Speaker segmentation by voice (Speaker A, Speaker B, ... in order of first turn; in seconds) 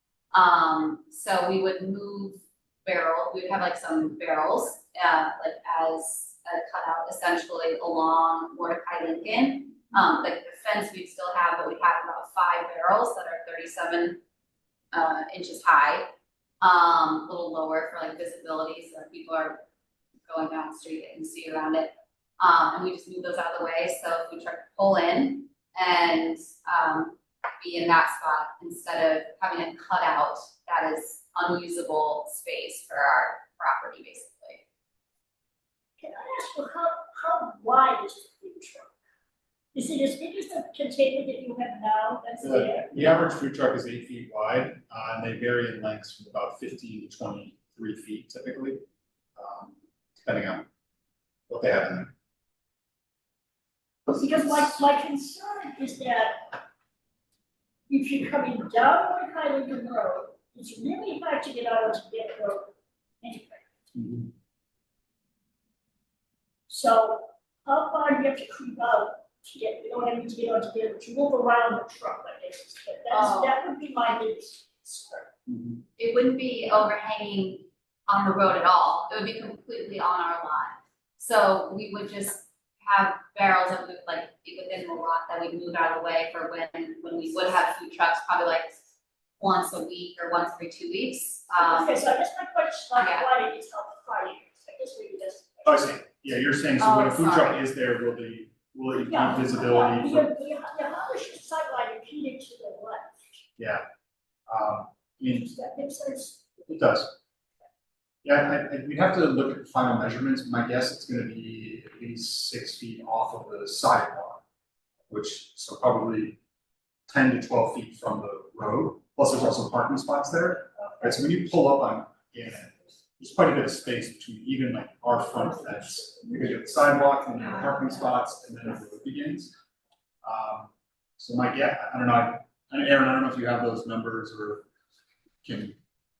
Speaker A: 0.3-14.2, 14.9-16.1, 16.6-19.6, 20.3-34.6, 73.1-73.6, 76.0-92.0, 93.0-93.3, 96.8-97.6
Speaker B: 36.0-38.9, 39.7-42.9, 54.1-56.6, 57.9-63.6, 66.7-75.3, 91.5-95.9, 98.9-103.2, 105.5-106.6
Speaker C: 42.4-48.8, 49.4-50.7, 51.5-52.1, 63.9-64.3, 75.5-75.8, 95.6-100.3, 103.6-103.8, 104.5-105.5, 106.7-107.1, 108.2-114.4, 115.1-116.4, 117.1-129.6, 130.2-134.7, 135.4-135.8